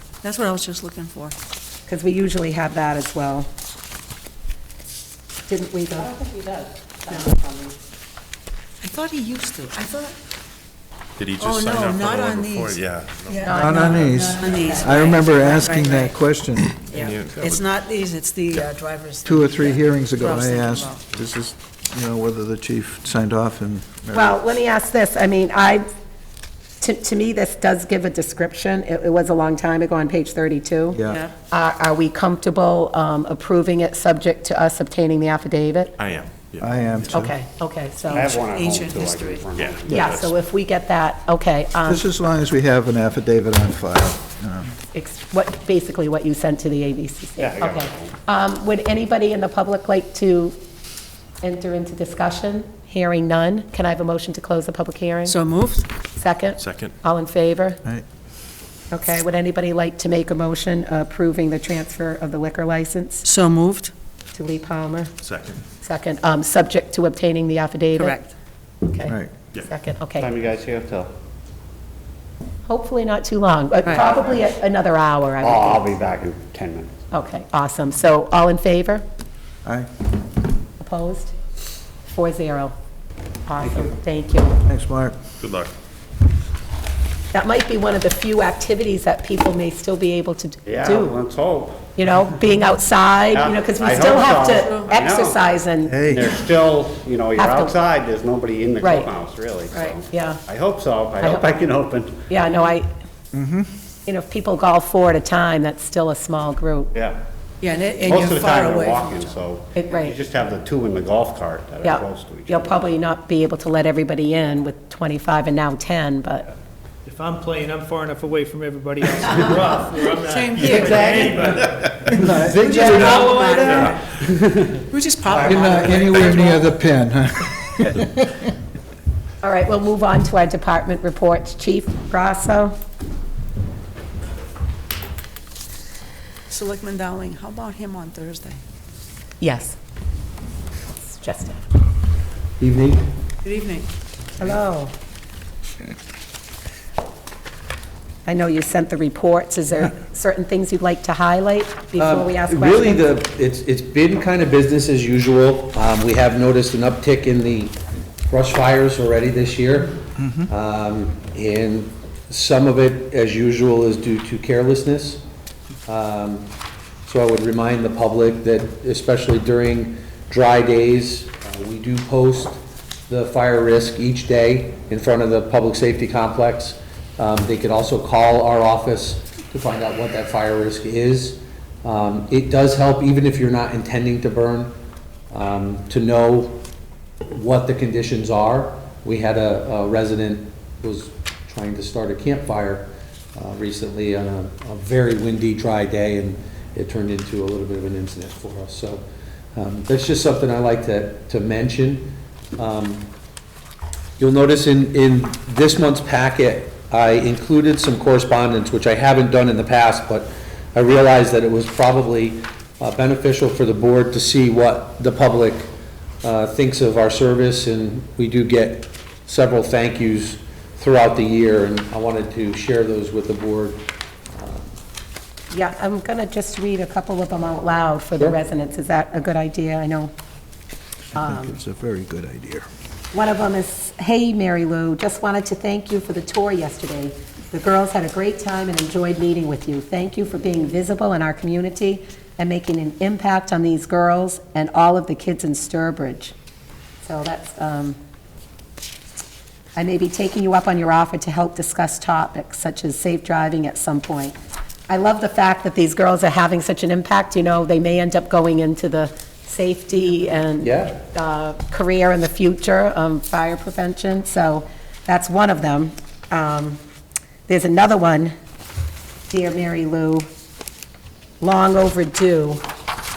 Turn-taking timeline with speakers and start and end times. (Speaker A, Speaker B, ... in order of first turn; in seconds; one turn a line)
Speaker A: 0.2-1.3
Speaker B: 1.9-3.5
Speaker B: 5.5-7.7
Speaker A: 8.8-10.1
Speaker C: 11.2-14.8
Speaker A: 11.4-16.1
Speaker B: 13.5-13.9
Speaker D: 13.5-16.8
Speaker A: 16.7-21.0
Speaker C: 16.9-17.6
Speaker D: 19.2-24.4
Speaker B: 24.1-25.9
Speaker B: 26.8-36.0
Speaker D: 30.9-31.2
Speaker C: 36.0-37.0
Speaker D: 36.6-37.3
Speaker B: 37.1-38.4
Speaker E: 38.1-40.1
Speaker A: 38.1-39.5
Speaker C: 39.5-40.3
Speaker B: 39.9-42.0
Speaker D: 41.9-44.7
Speaker B: 44.9-50.6
Speaker E: 47.4-48.1
Speaker B: 51.4-55.4
Speaker A: 55.3-55.9
Speaker B: 56.2-57.8
Speaker C: 56.6-57.0
Speaker B: 58.9-63.3
Speaker A: 63.2-63.9
Speaker B: 64.3-65.1
Speaker C: 65.2-65.6
Speaker B: 65.8-68.2
Speaker A: 67.9-68.3
Speaker B: 68.8-70.3
Speaker D: 69.1-69.3
Speaker E: 70.2-71.1
Speaker B: 72.7-75.9
Speaker E: 74.0-74.3
Speaker E: 75.4-77.0
Speaker B: 77.1-79.0
Speaker B: 80.8-81.3
Speaker B: 82.1-82.7
Speaker B: 83.5-84.6
Speaker D: 83.6-83.9
Speaker D: 84.6-85.2
Speaker C: 85.4-85.7
Speaker B: 87.3-91.2
Speaker E: 90.7-91.8
Speaker B: 92.0-96.0
Speaker E: 93.3-95.4
Speaker D: 95.9-96.3
Speaker E: 96.0-102.2
Speaker B: 97.4-97.7
Speaker B: 98.8-99.1
Speaker A: 99.7-100.0
Speaker B: 100.1-100.4
Speaker B: 101.2-101.5
Speaker B: 102.3-102.9
Speaker D: 103.3-103.7
Speaker B: 104.0-106.9
Speaker E: 106.9-107.2
Speaker A: 107.6-109.3
Speaker E: 108.0-112.7
Speaker B: 109.7-110.2
Speaker B: 111.8-116.5
Speaker F: 117.1-121.6
Speaker A: 119.3-119.5
Speaker A: 120.2-121.5
Speaker C: 120.6-122.0
Speaker D: 122.0-123.9
Speaker A: 122.5-124.0
Speaker C: 122.8-123.9
Speaker F: 123.1-123.9
Speaker A: 124.7-126.7
Speaker C: 125.3-125.7
Speaker D: 125.4-128.5
Speaker B: 129.4-132.8
Speaker A: 136.5-138.6
Speaker B: 139.4-139.8
Speaker B: 141.0-141.6
Speaker G: 142.6-143.0
Speaker A: 143.4-143.9
Speaker B: 144.4-144.9
Speaker B: 148.2-153.1
Speaker G: 152.0-165.2
Speaker G: 165.9-166.5
Speaker G: 167.0-184.8
Speaker G: 185.3-186.7
Speaker G: 187.3-203.1
Speaker G: 204.2-224.7
Speaker B: 225.5-230.1
Speaker B: 231.1-231.6
Speaker D: 231.1-232.7
Speaker B: 233.1-246.3
Speaker B: 247.0-248.0
Speaker B: 249.8-254.4
Speaker B: 254.9-266.8
Speaker G: 260.6-260.9
Speaker B: 267.5-268.4
Speaker B: 269.3-270.3
Speaker B: 271.4-272.6